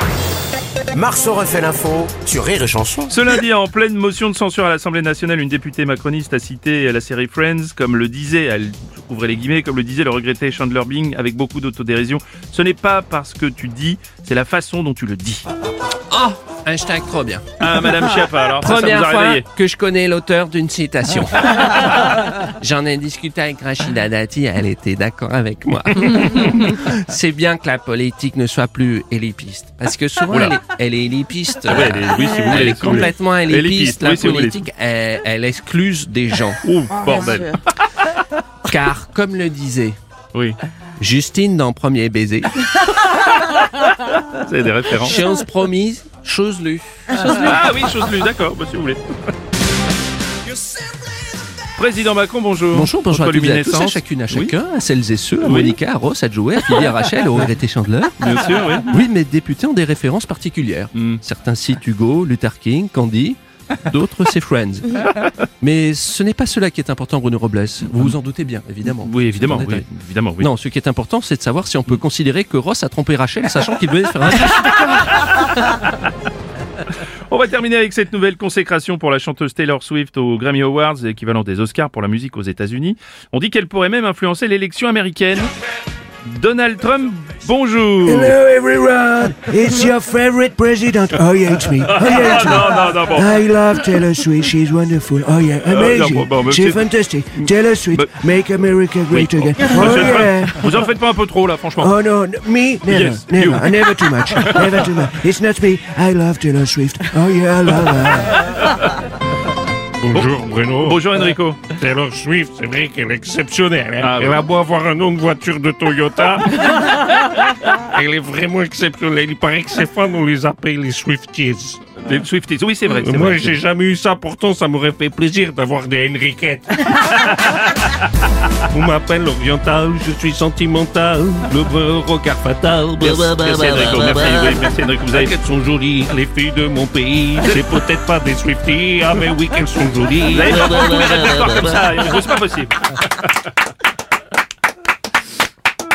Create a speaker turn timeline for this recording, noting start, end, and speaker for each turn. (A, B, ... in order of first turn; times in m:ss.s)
0:00.9-0:03.1 A
0:03.1-0:15.4 B
0:16.1-0:17.7 C
0:17.6-0:19.4 B
0:18.6-0:36.6 C
0:30.3-0:30.5 B
0:31.6-0:34.6 B
0:36.6-0:38.2 B
0:38.6-0:40.0 C
0:41.0-0:42.5 C
0:43.2-0:45.2 B
0:45.0-0:46.9 C
0:47.2-0:49.0 B
0:51.7-0:54.5 B
0:52.7-0:58.2 C
0:55.4-0:55.8 B
0:58.2-0:58.9 B
0:58.8-1:05.0 C
1:00.9-1:01.2 B
1:05.6-1:09.8 C
1:08.8-1:10.5 B
1:10.4-1:15.3 C
1:17.3-1:25.5 B
1:26.2-1:28.4 B
1:28.0-1:40.8 D
1:31.8-1:33.4 B
1:35.6-1:38.1 B
1:39.1-1:41.9 B
1:41.8-1:48.5 D
1:42.9-1:44.8 B
1:48.5-1:48.8 B
1:50.0-1:51.1 E
1:50.1-1:51.7 B
1:51.6-1:57.0 E
1:54.0-1:54.4 B
1:57.9-2:01.9 E
2:02.0-2:03.6 B
2:02.9-2:07.6 E
2:08.7-2:13.3 E
2:13.0-2:15.3 B
2:15.1-2:21.0 E
2:20.3-2:23.2 B